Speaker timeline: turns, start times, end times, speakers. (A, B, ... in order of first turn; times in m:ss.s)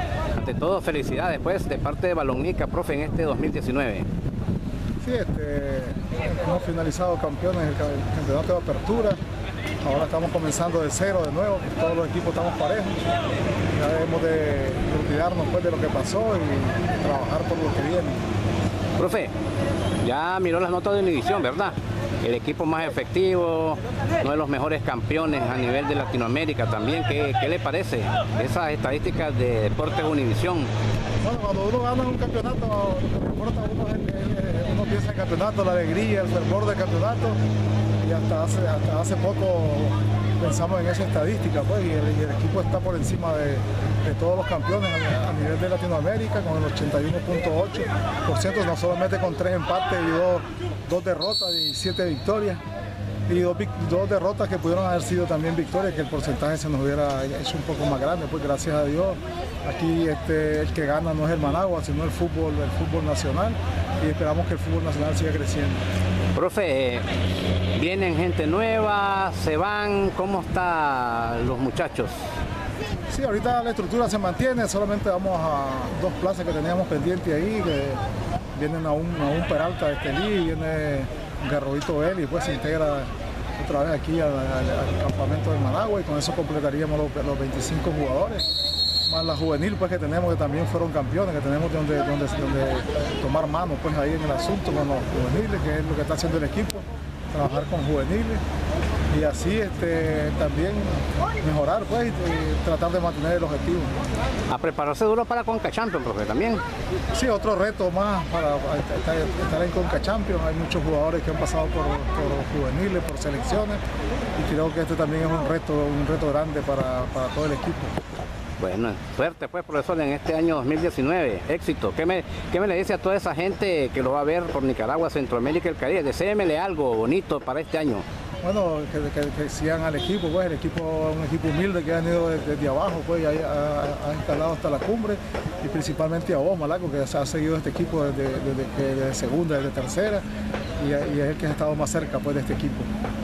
0:00.4-0:04.1 A
0:05.0-0:09.2 B
0:09.8-0:13.0 B
0:13.7-0:18.2 B
0:19.0-0:19.3 A
0:20.0-0:30.7 A
0:31.2-0:37.4 B
0:38.0-0:52.6 B
0:53.3-1:05.8 B
1:06.4-1:07.1 A
1:07.8-1:12.2 A
1:13.1-1:18.0 B
1:18.6-1:28.4 B
1:29.1-1:38.4 B
1:39.1-1:44.0 B
1:44.5-1:46.6 A
1:47.1-1:53.8 B
1:54.4-1:58.0 B
1:58.6-2:08.0 A
2:08.4-2:20.2 B
2:20.8-2:22.9 B